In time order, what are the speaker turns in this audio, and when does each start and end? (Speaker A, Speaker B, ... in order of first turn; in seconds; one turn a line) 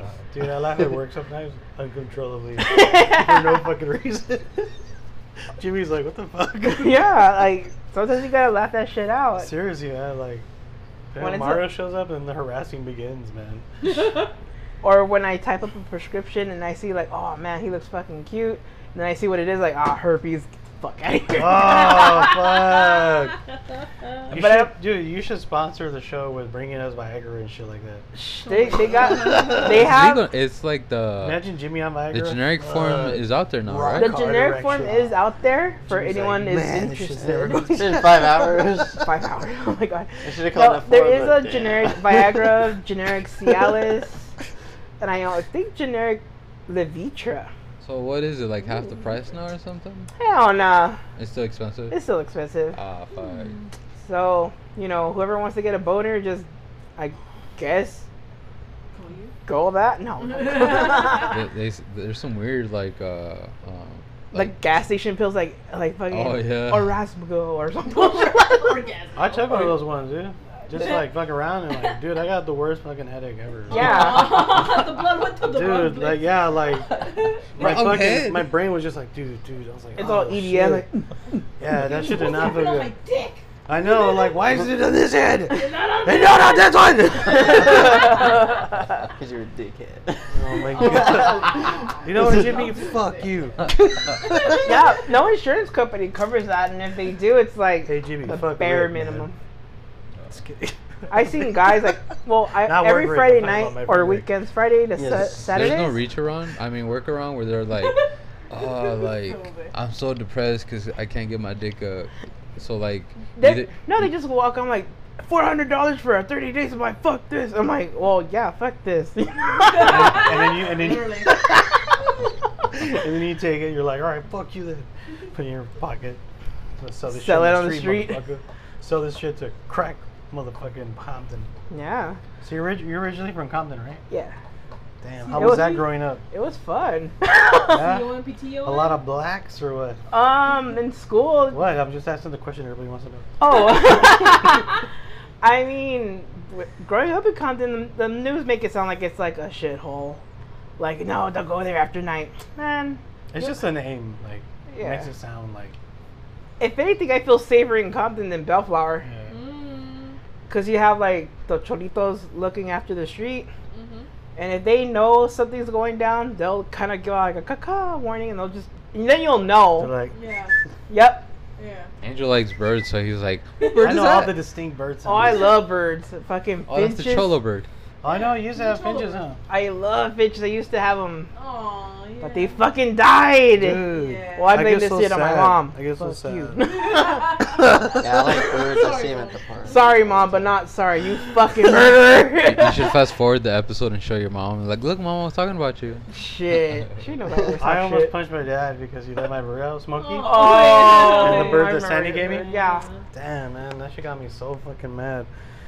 Speaker A: 0.3-4.7
Speaker B: 2.6-3.6
Speaker A: 5.6-7.2
Speaker B: 6.7-9.5
Speaker A: 9.4-10.4
Speaker A: 11.1-13.6
Speaker B: 11.2-11.7
Speaker C: 13.9-14.3
Speaker B: 14.8-22.5
Speaker A: 21.3-23.4
Speaker A: 24.3-28.0
Speaker B: 24.3-24.7
Speaker B: 28.1-30.2
Speaker C: 28.4-29.8
Speaker A: 29.2-29.6
Speaker D: 29.6-31.4
Speaker A: 31.2-35.1
Speaker D: 32.1-34.1
Speaker B: 34.0-37.8
Speaker A: 35.8-38.4
Speaker E: 37.7-39.1
Speaker B: 39.0-44.3
Speaker E: 40.2-42.7
Speaker E: 43.5-43.8
Speaker B: 45.0-47.5
Speaker D: 47.8-50.1
Speaker B: 50.2-51.0
Speaker D: 51.2-52.0
Speaker B: 51.9-52.8
Speaker D: 52.7-53.5
Speaker C: 53.2-53.7
Speaker B: 54.0-58.0
Speaker C: 58.9-59.3
Speaker B: 59.4-61.4
Speaker C: 60.3-61.4
Speaker D: 61.1-64.5
Speaker B: 64.3-68.8
Speaker D: 66.1-67.0
Speaker C: 67.9-69.8
Speaker A: 69.2-76.9
Speaker C: 73.7-77.5
Speaker B: 73.7-74.4
Speaker A: 77.5-80.9
Speaker D: 77.5-78.5
Speaker B: 80.0-81.0
Speaker A: 81.6-82.9
Speaker C: 81.8-84.3
Speaker A: 83.7-88.2
Speaker C: 85.5-86.7
Speaker C: 87.3-88.3
Speaker B: 87.4-88.6
Speaker E: 89.1-91.7
Speaker A: 90.3-94.7
Speaker C: 90.7-93.5
Speaker B: 94.6-99.3
Speaker A: 97.8-99.3
Speaker A: 100.3-102.0
Speaker B: 101.1-106.0
Speaker A: 102.6-104.3
Speaker E: 104.9-105.7
Speaker D: 105.4-108.0
Speaker C: 107.8-109.7
Speaker D: 108.5-114.1
Speaker B: 113.4-120.2
Speaker C: 119.3-121.6
Speaker A: 119.7-121.8
Speaker A: 122.7-126.2
Speaker A: 126.8-131.5
Speaker B: 127.1-128.2
Speaker B: 131.7-132.2
Speaker A: 132.4-134.0
Speaker B: 134.1-134.3
Speaker A: 135.0-136.2
Speaker C: 135.2-135.9
Speaker B: 135.3-137.8
Speaker C: 137.6-139.0
Speaker A: 137.7-140.0
Speaker B: 140.1-141.7
Speaker A: 141.5-143.3
Speaker B: 143.4-144.8
Speaker B: 145.4-150.2
Speaker B: 150.8-153.5
Speaker A: 153.3-155.8
Speaker B: 154.7-155.1
Speaker B: 156.6-159.1
Speaker A: 159.0-159.3
Speaker C: 159.3-160.2
Speaker B: 160.5-163.5
Speaker C: 163.7-164.1
Speaker B: 164.3-169.9
Speaker A: 169.8-170.1
Speaker C: 170.1-170.5
Speaker B: 170.9-171.3
Speaker C: 171.6-171.9
Speaker D: 172.0-174.4
Speaker C: 173.6-174.3
Speaker A: 173.8-175.5
Speaker B: 175.0-177.3
Speaker C: 175.2-175.5
Speaker D: 176.7-177.7
Speaker A: 178.0-179.4
Speaker C: 178.0-179.2
Speaker B: 179.5-181.3
Speaker C: 181.3-182.7
Speaker B: 182.2-187.3
Speaker A: 183.5-186.6
Speaker C: 183.9-184.7
Speaker C: 186.6-190.2
Speaker A: 187.5-188.0
Speaker E: 188.0-190.5
Speaker B: 189.7-192.9
Speaker D: 192.4-196.1
Speaker B: 196.1-198.1
Speaker A: 197.6-202.5
Speaker C: 200.0-203.0
Speaker B: 200.2-202.8
Speaker A: 203.1-205.3